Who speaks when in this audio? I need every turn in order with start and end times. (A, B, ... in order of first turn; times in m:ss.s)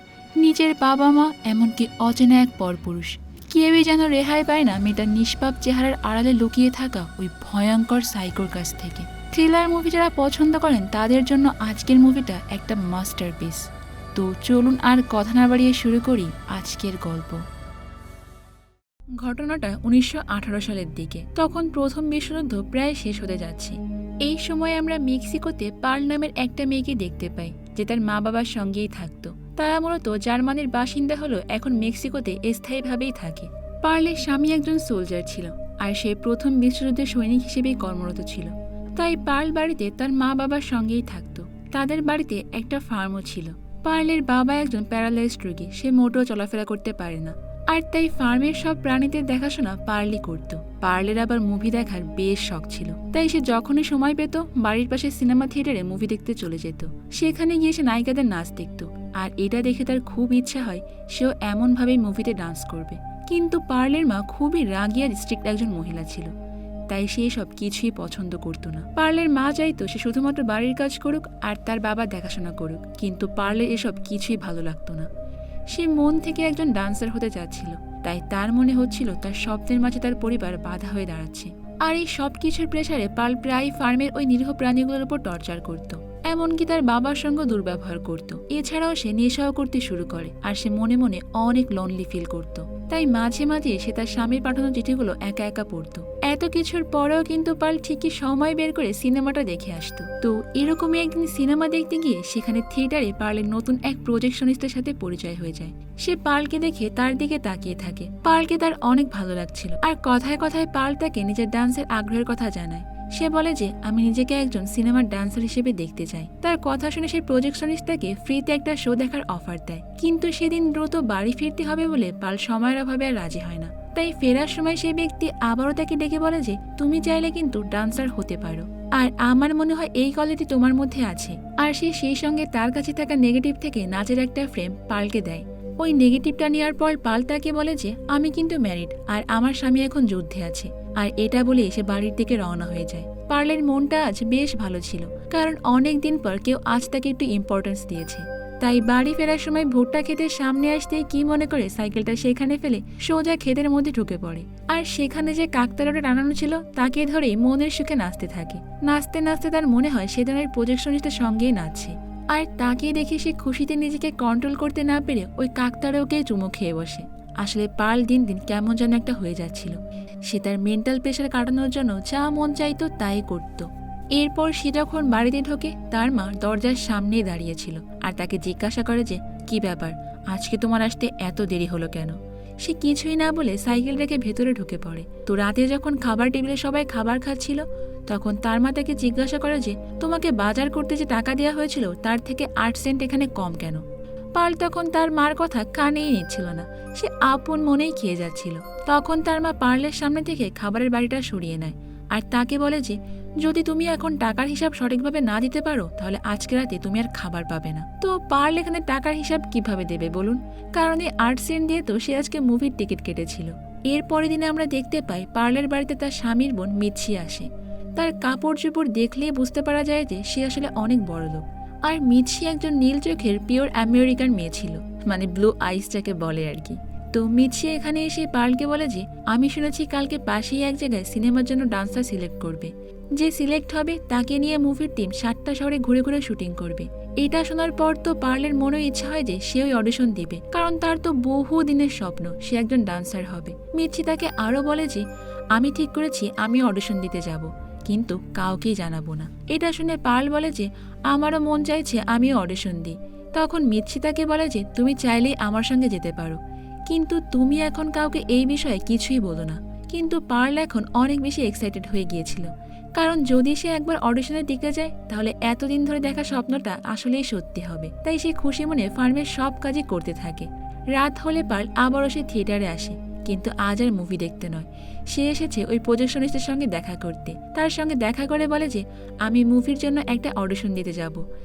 0:00.4-0:17.4 A
0:19.2-1:06.3 A
1:06.9-1:15.1 A
1:15.7-3:13.8 A
3:14.4-4:41.2 A